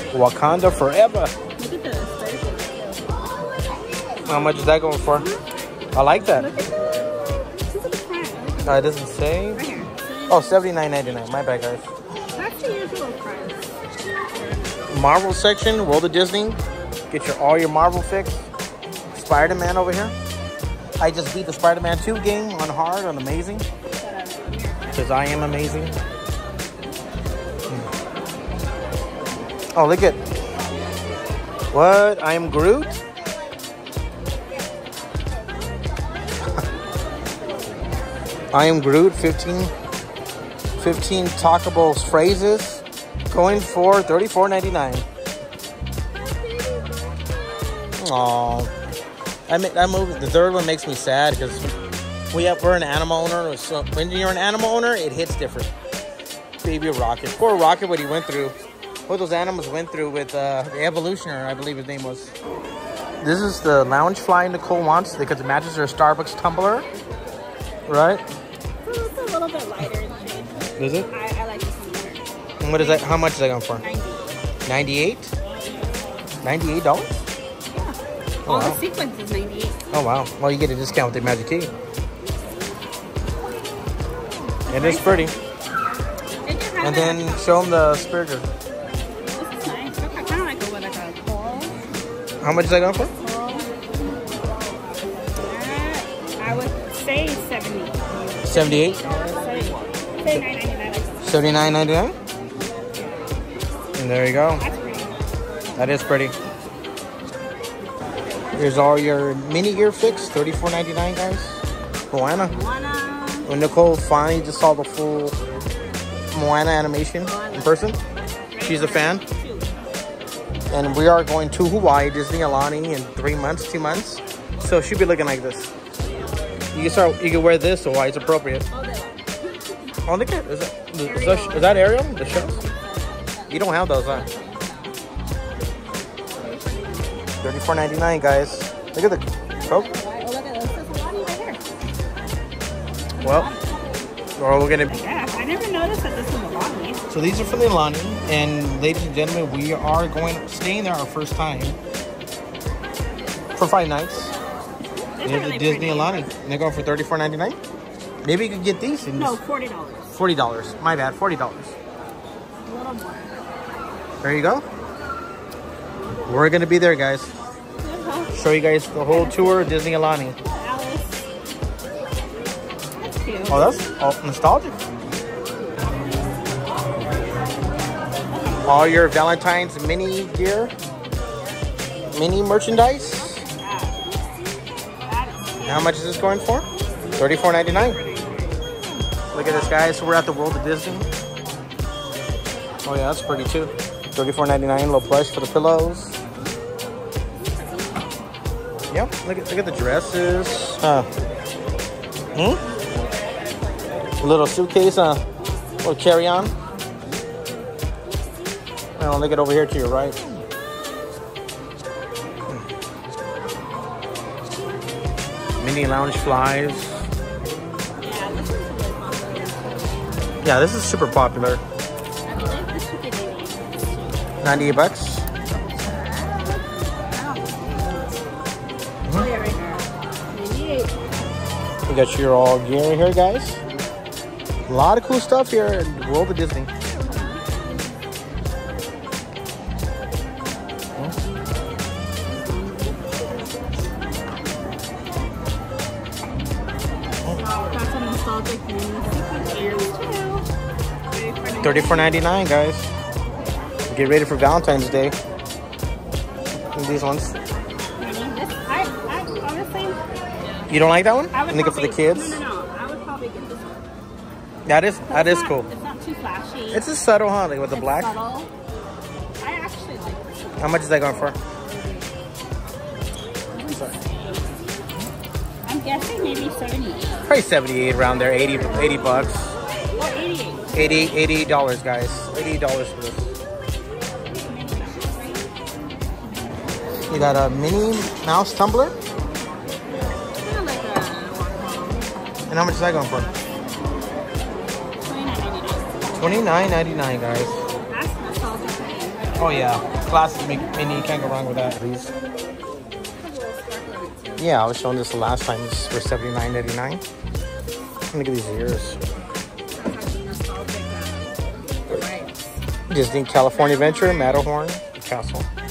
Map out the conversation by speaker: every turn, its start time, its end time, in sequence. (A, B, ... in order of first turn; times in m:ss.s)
0:00.1-0:01.3 A
0:01.6-0:02.9 B
0:04.2-0:05.4 B
0:04.3-0:05.3 A
0:05.9-0:06.5 A
0:06.2-0:08.9 B
0:08.6-0:09.6 A
0:09.6-0:10.7 B
0:10.3-0:11.9 A
0:12.3-0:15.1 B
0:14.9-0:16.6 A
0:17.1-0:18.5 A
0:19.1-0:20.1 A
0:21.0-0:23.6 A
0:23.9-0:25.5 B
0:24.9-0:25.9 A
0:29.8-0:30.2 A
0:31.7-0:33.0 A
0:38.5-0:39.7 A
0:40.8-0:45.0 A
0:46.3-0:48.0 B
0:48.0-0:48.7 A
0:49.5-0:51.7 A
0:51.6-0:52.1 B
0:52.3-0:55.7 A
0:56.6-0:58.6 A
0:57.5-0:59.0 B
0:59.1-1:02.4 A
1:03.2-1:06.9 A
1:07.9-1:08.2 A
1:08.8-1:12.2 B
1:10.8-1:11.1 A
1:12.6-1:13.8 A
1:12.7-1:14.4 B
1:14.6-1:15.3 A
1:16.4-1:17.3 A
1:17.7-1:19.8 B
1:18.5-1:18.8 A
1:19.9-1:21.7 A
1:24.7-1:25.4 B
1:24.7-1:25.3 A
1:26.4-1:27.5 B
1:26.8-1:28.5 A
1:29.3-1:31.8 B
1:32.4-1:33.1 A
1:33.1-1:33.8 B
1:35.4-1:41.6 B
1:38.4-1:39.2 A
1:41.2-1:42.2 A
1:44.0-1:44.6 A
1:44.6-1:45.2 B
1:45.8-1:46.4 A
1:48.5-1:52.5 A
1:52.4-1:53.5 B
1:53.4-1:55.4 A
1:56.3-1:58.0 A
1:57.2-1:58.0 B
1:58.5-1:59.7 B
1:58.6-1:59.2 A
2:00.7-2:05.7 A
2:06.7-2:08.7 A
2:08.7-2:09.9 B
2:10.1-2:12.6 A
2:11.0-2:15.0 B
2:13.5-2:14.3 A
2:16.4-2:17.3 B
2:17.4-2:19.9 A
2:19.6-2:21.6 B
2:23.2-2:23.8 B
2:23.2-2:23.5 A
2:24.4-2:24.9 A
2:24.9-2:27.0 B
2:27.1-2:31.8 A
2:33.6-2:34.4 A
2:35.2-2:36.3 B
2:35.2-2:37.6 A
2:38.2-2:39.4 A
2:39.1-2:40.2 B
2:40.1-2:41.8 A
2:42.6-2:43.4 B
2:44.2-2:44.6 A
2:46.3-2:47.3 A
2:47.8-2:48.4 B
2:48.3-2:50.4 A
2:49.1-2:49.8 B
2:50.4-2:51.3 B
2:53.0-2:53.9 B
2:53.5-2:54.8 A
2:58.3-2:59.0 B
2:58.6-3:00.7 A
3:02.1-3:03.4 A
3:03.2-3:04.4 B
3:05.0-3:05.9 B
3:05.6-3:06.7 A
3:07.2-3:08.0 A
3:07.3-3:08.7 B
3:09.3-3:11.1 A
3:09.4-3:09.8 B
3:12.8-3:16.2 A
3:17.4-3:18.1 B
3:18.9-3:21.1 A
3:22.3-3:22.6 A
3:22.6-3:23.3 B
3:24.2-3:25.2 A
3:25.8-3:26.5 A
3:29.0-3:30.2 A
3:35.6-3:37.0 A
3:38.0-3:39.9 B
3:40.4-3:41.6 A
3:42.3-3:44.3 B
3:44.4-3:45.3 A
3:45.5-3:48.2 B
3:49.1-3:51.0 B
3:51.9-3:53.6 A
3:54.7-3:56.7 A
3:56.9-3:57.8 B
4:02.4-4:03.2 B
4:07.3-4:10.5 B
4:11.1-4:12.3 B
4:11.6-4:12.9 A
4:13.9-4:15.2 A
4:16.7-4:17.4 A
4:18.0-4:20.0 B
4:20.7-4:22.4 A
4:21.3-4:23.9 B
4:24.7-4:25.7 A
4:25.1-4:26.9 B
4:26.7-4:28.2 A
4:27.7-4:28.5 B
4:29.4-4:31.0 B
4:30.6-4:31.4 A
4:31.7-4:32.1 B
4:33.5-4:34.6 B
4:35.7-4:37.3 B
4:37.3-4:39.6 A
4:39.9-4:41.0 B
4:40.7-4:43.4 A
4:44.3-4:45.5 B
4:47.1-4:49.0 A
4:50.4-4:52.2 B
4:52.5-4:53.3 A
4:52.9-4:53.4 B
4:55.0-4:56.3 B
4:56.1-4:57.7 A
4:57.9-4:59.4 B
4:59.4-5:02.1 A
5:03.2-5:04.5 B
5:04.4-5:07.0 A
5:08.1-5:09.0 A
5:09.8-5:12.5 B
5:12.9-5:15.5 A
5:13.3-5:14.5 B